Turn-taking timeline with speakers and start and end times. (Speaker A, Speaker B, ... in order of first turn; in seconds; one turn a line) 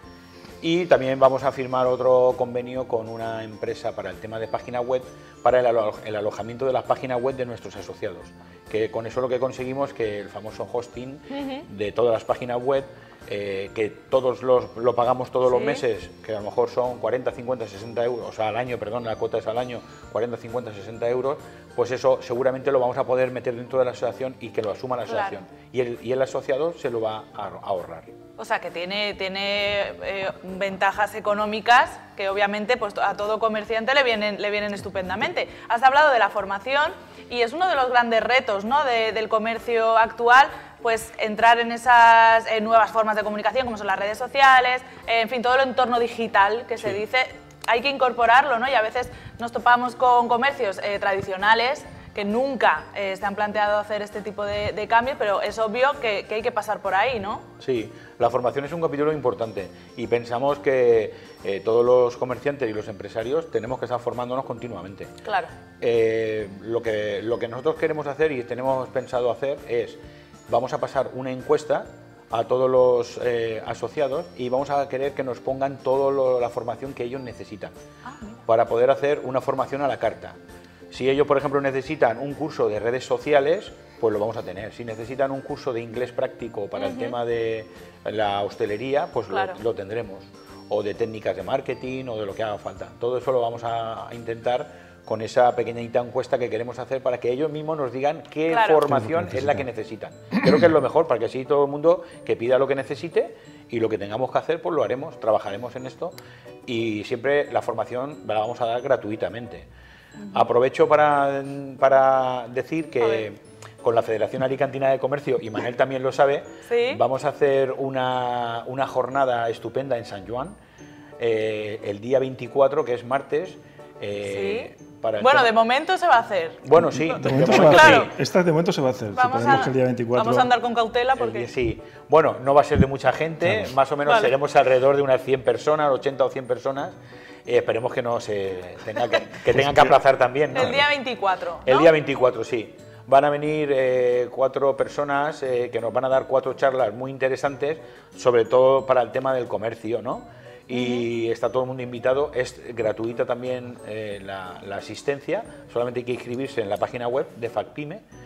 Speaker A: 0.6-28.1
Speaker B: 11.3-11.6
Speaker B: 15.5-15.8
Speaker B: 25.1-25.4
Speaker B: 28.4-57.5
Speaker A: 57.6-65.1
Speaker B: 65.2-65.5
Speaker A: 65.8-77.7
Speaker B: 78.0-78.4
Speaker A: 78.5-80.4
Speaker A: 80.9-106.2
Speaker B: 86.8-87.2
Speaker B: 89.3-89.6
Speaker B: 98.5-98.9
Speaker C: 98.9-99.7
Speaker A: 106.7-109.7
Speaker B: 110.2-110.5
Speaker A: 110.3-120.6
Speaker B: 113.0-113.3
Speaker B: 116.7-117.0
Speaker A: 121.2-125.5
Speaker B: 124.2-128.1
Speaker A: 126.6-128.1
Speaker C: 126.8-130.5
Speaker B: 129.1-131.5
Speaker A: 131.2-136.9
Speaker C: 133.4-133.8
Speaker B: 134.1-134.3
Speaker A: 137.5-140.9
Speaker B: 140.5-141.9
Speaker A: 141.7-158.0
Speaker B: 150.7-151.1